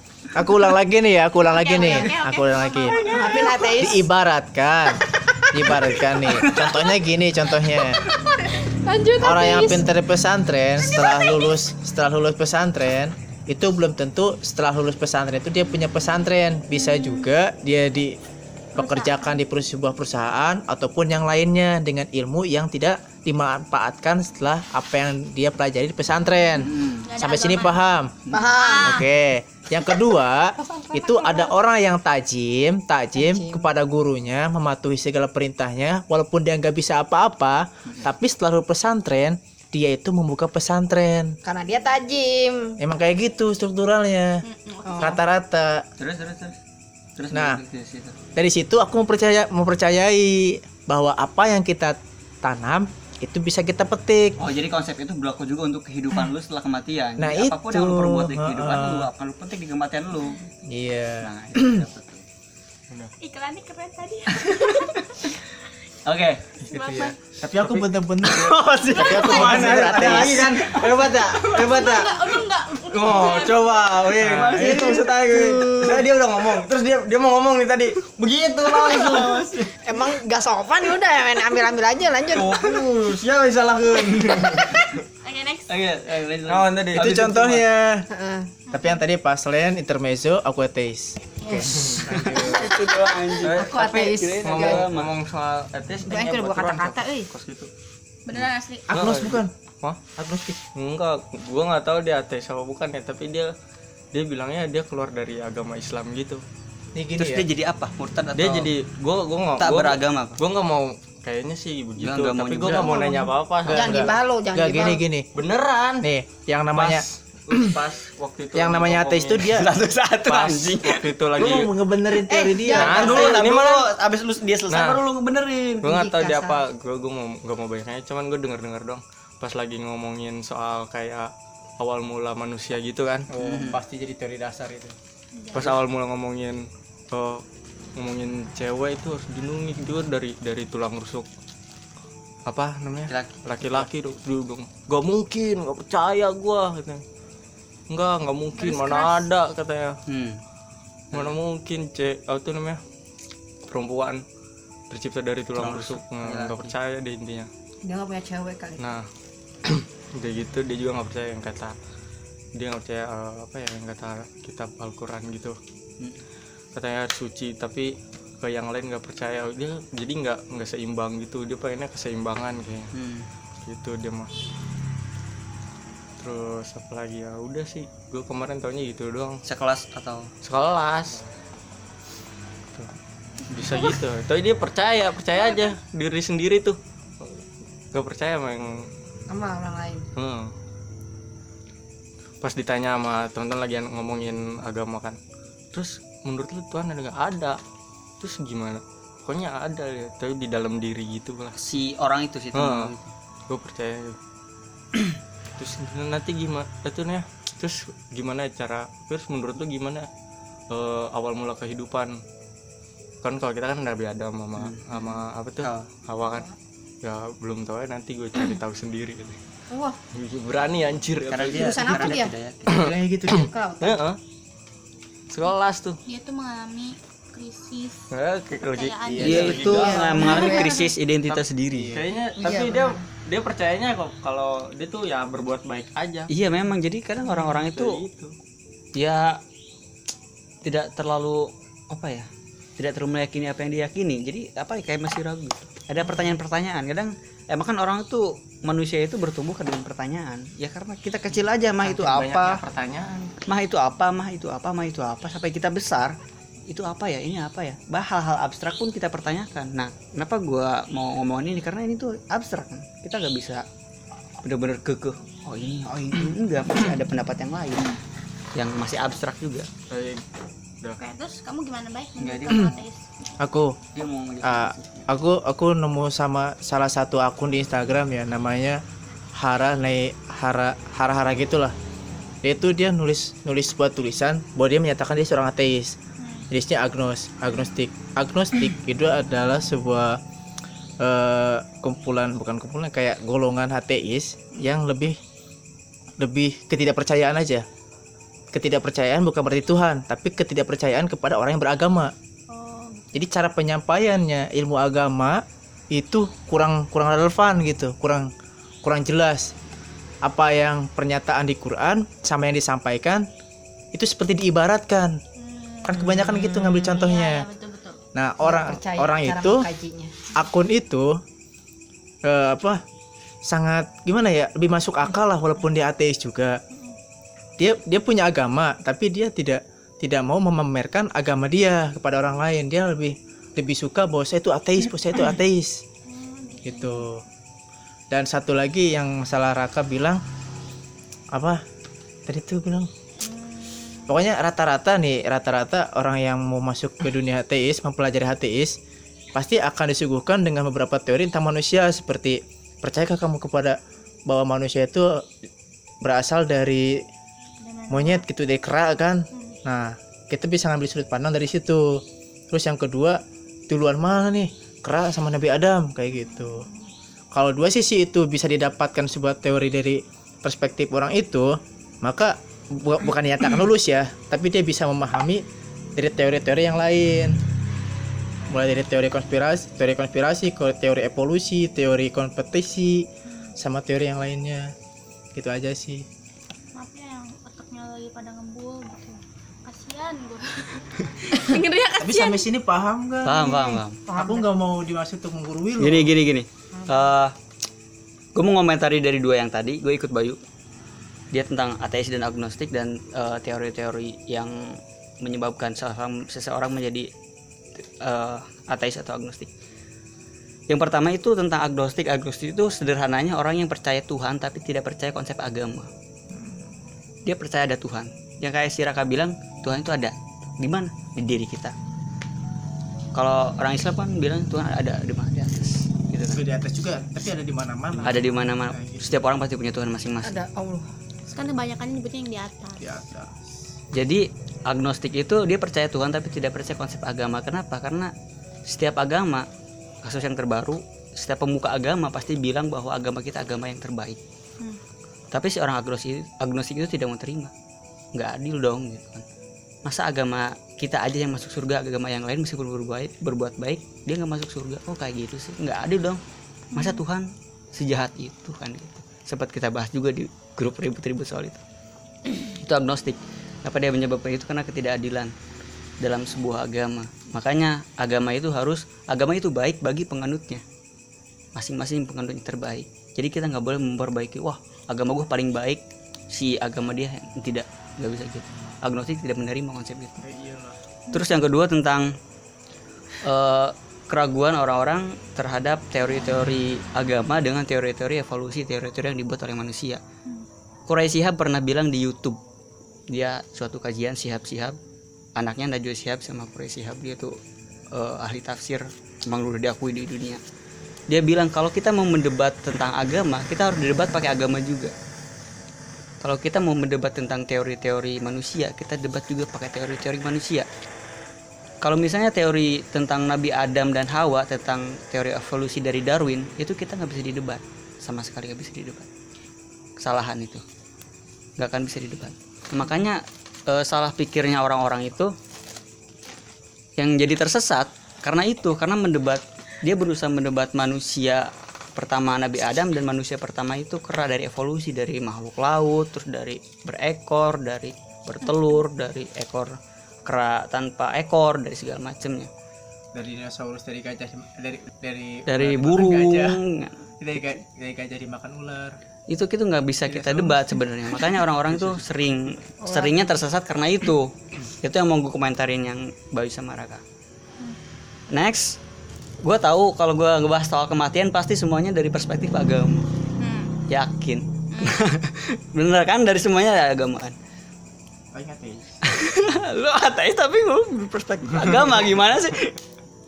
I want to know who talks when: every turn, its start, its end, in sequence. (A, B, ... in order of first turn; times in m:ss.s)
0:00.4-0:03.0 A
0:01.5-0:03.6 B
0:01.7-0:02.1 C
0:02.9-0:03.5 D
0:03.0-0:04.1 C
0:03.8-0:08.0 A
0:06.3-0:06.7 E
0:07.9-0:09.9 C
0:09.2-0:18.2 A
0:10.9-0:11.4 B
0:16.8-0:17.0 B
0:18.8-0:28.1 A
0:18.8-0:19.3 B
0:26.6-0:27.1 E
0:27.0-0:27.9 B
0:28.3-0:28.5 E
0:28.3-0:29.0 C
0:28.5-0:29.1 B
0:28.8-0:41.4 A
0:30.6-0:31.5 C
0:33.2-0:33.7 C
0:41.4-0:42.8 C
0:42.8-0:44.4 A
0:44.4-0:45.2 B
0:44.8-0:45.2 C
0:45.0-0:45.8 A
0:46.0-0:46.6 E
0:47.2-0:48.2 E
0:47.3-0:47.6 A
0:48.4-0:54.4 A
0:54.4-1:00.4 E
0:57.2-0:59.1 A
1:00.7-1:01.8 A
1:01.2-1:02.2 E
1:03.2-1:05.1 B
1:04.3-1:05.4 E
1:06.0-1:06.4 E
1:06.6-1:12.2 D
1:06.7-1:07.2 B
1:06.8-1:10.6 A
1:08.2-1:11.8 E
1:10.8-1:13.9 B
1:12.9-1:19.4 D
1:14.2-1:15.1 E
1:14.4-1:16.1 C
1:18.3-1:19.7 E
1:18.9-1:19.2 C
1:19.8-1:22.9 C
1:22.3-1:25.0 D
1:24.2-1:25.7 B
1:25.7-1:27.7 E
1:26.5-1:27.4 D
1:27.0-1:28.1 A
1:28.1-1:28.5 C
1:28.7-1:29.0 B
1:28.7-1:32.5 A
1:31.4-1:32.0 C
1:31.7-1:32.7 D
1:32.1-1:35.1 E
1:33.4-1:34.9 C
1:33.4-1:37.7 D
1:36.1-1:37.3 C
1:38.3-1:38.9 B
1:38.3-1:40.1 D
1:38.9-1:39.5 A
1:40.2-1:40.6 A
1:40.7-1:43.5 D
1:44.1-1:46.4 D
1:47.0-1:47.5 A
1:47.2-1:48.7 E
1:48.4-1:54.1 D
1:49.6-1:50.4 E
1:52.0-1:53.0 E
1:53.7-1:55.3 A
1:53.7-1:55.0 C
1:55.4-1:56.1 D
1:56.0-1:57.0 A
1:56.7-1:59.6 D
1:58.6-1:59.7 A
1:59.4-2:01.1 E
2:00.3-2:01.7 D
2:01.4-2:03.3 A
2:02.1-2:03.4 C
2:02.7-2:06.0 E
2:02.8-2:03.9 D
2:04.7-2:05.0 D
2:05.8-2:13.6 D
2:05.8-2:06.6 C
2:13.4-2:13.8 E
2:13.4-2:15.0 A
2:15.4-2:15.8 B
2:15.5-2:17.4 D
2:18.0-2:21.3 D
2:22.5-2:27.0 D
2:23.1-2:23.9 E
2:27.9-2:30.0 D
2:28.6-2:29.2 B
2:30.1-2:30.4 E
2:31.1-2:32.8 D
2:33.6-2:34.2 D
2:34.9-2:37.5 D
2:35.6-2:36.7 E
2:37.8-2:38.8 C
2:38.8-2:39.1 D
2:39.6-2:41.8 D
2:42.6-2:45.6 D
2:46.7-2:52.9 D
2:52.9-2:53.3 E
2:53.6-2:54.3 D
2:56.2-2:59.4 D
2:59.4-3:00.3 E
3:00.4-3:01.3 D
3:03.5-3:08.9 D
3:09.3-3:10.1 C
3:10.2-3:10.5 D
3:12.4-3:15.2 D
3:15.7-3:17.6 D
3:18.2-3:21.6 D
3:21.6-3:23.1 E
3:22.5-3:22.9 D
3:23.5-3:24.2 D
3:25.5-3:30.1 D
3:30.7-3:32.2 D
3:33.2-3:36.5 D
3:34.6-3:35.9 E
3:37.0-3:39.4 D
3:39.7-3:40.0 C
3:40.1-3:42.2 D
3:41.3-3:42.9 E
3:41.5-3:42.3 C
3:42.7-3:43.5 A
3:42.7-3:44.2 D
3:43.3-3:44.0 C
3:45.3-3:46.0 D
3:46.1-3:48.1 B
3:48.1-3:56.3 D
3:48.7-3:49.7 B
3:49.2-3:52.0 E
3:49.4-3:50.9 C
3:51.8-3:52.1 A
3:52.4-3:53.0 C
3:56.3-3:58.0 E
3:57.4-3:58.3 D
3:59.0-3:59.4 E
4:00.6-4:12.6 E
4:11.8-4:13.3 D
4:13.5-4:16.2 E
4:16.7-4:23.6 E
4:24.4-4:28.0 E
4:28.5-4:29.7 E
4:29.9-4:30.2 D
4:31.0-4:33.0 B
4:32.2-4:32.8 E
4:33.4-4:33.8 A
4:33.9-4:35.1 E
4:34.4-4:38.8 A
4:39.4-4:41.8 A
4:42.4-4:46.0 A
4:46.2-4:46.5 B
4:46.5-4:50.2 A
4:51.0-4:55.2 A
4:56.2-4:57.7 A
4:58.5-5:02.1 A
5:02.5-5:03.2 B
5:03.1-5:08.3 A
5:08.8-5:09.5 A
5:10.2-5:13.3 A
5:13.9-5:15.2 A
5:15.4-5:18.0 B
5:15.8-5:17.5 A
5:18.2-5:19.7 A
5:18.4-5:20.3 C
5:20.3-5:21.2 A
5:22.2-5:22.8 A
5:23.5-5:26.6 A
5:27.6-5:35.8 A
5:36.1-5:37.1 B
5:36.6-5:37.2 A
5:38.1-5:40.2 A
5:41.3-5:41.6 A
5:42.3-5:42.9 A
5:43.2-5:44.2 B
5:44.1-5:48.8 A
5:49.3-5:55.3 A
5:56.0-5:57.0 A
5:57.6-5:58.2 B
5:57.9-6:06.7 A
6:06.2-6:06.9 B
6:07.3-6:15.4 A
6:16.0-6:17.4 A
6:18.5-6:24.7 A
6:23.3-6:23.5 B
6:25.4-6:26.0 A
6:26.7-6:32.5 B
6:32.0-6:36.1 A
6:33.2-6:34.0 E
6:34.1-6:34.5 C
6:35.8-6:37.4 E
6:36.8-6:37.1 C
6:38.4-6:40.4 E
6:41.3-6:47.1 E
6:47.8-6:49.5 E
6:50.7-6:55.9 E
6:56.4-6:56.7 A
6:57.2-7:01.8 E
7:03.2-7:06.4 E
7:06.3-7:09.1 A
7:08.0-7:10.4 E
7:10.2-7:10.9 C
7:11.3-7:12.8 B
7:12.8-7:13.5 A
7:13.9-7:18.1 E
7:18.7-7:19.5 E
7:20.0-7:24.2 E
7:25.3-7:27.5 E
7:28.2-7:29.3 E
7:29.8-7:36.2 E
7:36.7-7:37.0 B
7:36.7-7:41.6 E
7:42.3-7:45.4 E
7:46.0-7:50.6 E
7:51.6-8:00.2 E
8:00.2-8:00.8 A
8:01.1-8:02.2 E
8:03.2-8:10.0 E
8:10.9-8:12.4 E
8:13.1-8:14.8 E
8:15.4-8:17.4 E
8:17.9-8:20.4 E
8:21.1-8:24.9 E
8:26.2-8:30.7 E
8:31.8-8:39.1 E
8:40.0-8:40.6 E
8:41.6-8:45.3 E
8:47.0-9:02.5 E
9:03.1-9:06.6 A
9:05.5-9:07.0 E
9:07.2-9:09.0 A
9:09.3-9:17.0 E
9:10.1-9:10.7 A
9:11.7-9:12.0 D
9:12.8-9:13.3 C
9:18.3-9:18.8 E
9:19.4-9:23.1 E
9:23.4-9:23.8 B
9:23.9-9:27.4 E
9:24.7-9:25.0 B
9:28.3-9:28.9 A
9:29.0-9:32.8 E